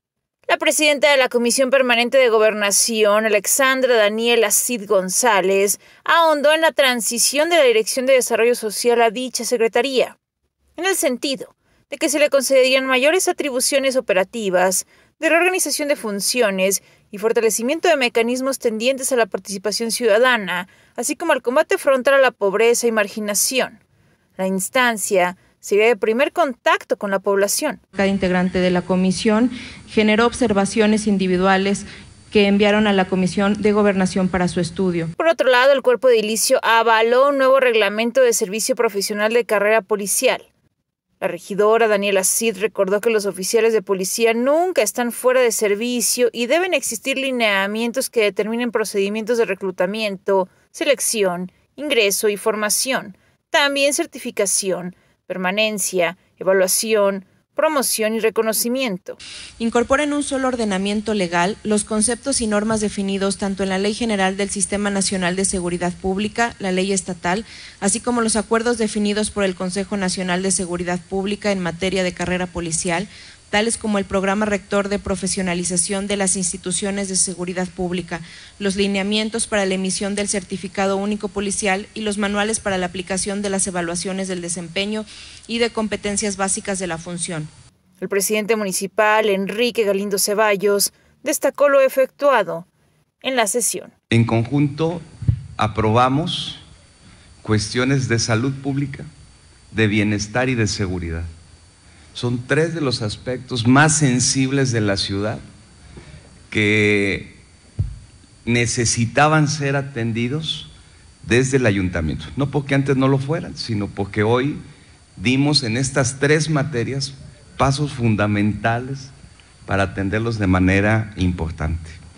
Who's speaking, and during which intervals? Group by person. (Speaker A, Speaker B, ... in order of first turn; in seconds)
Speaker A: 0.5-10.2, 10.8-23.8, 24.4-27.8, 35.2-40.5, 41.2-59.2, 88.0-92.7, 93.2-93.9
Speaker B: 28.0-35.1, 59.6-87.5
Speaker C: 94.1-95.0, 95.6-96.6, 97.4-99.1, 99.7-101.3, 102.2-105.4, 106.5-107.4, 108.5-110.7, 111.2-114.6, 115.2-119.1, 119.7-122.0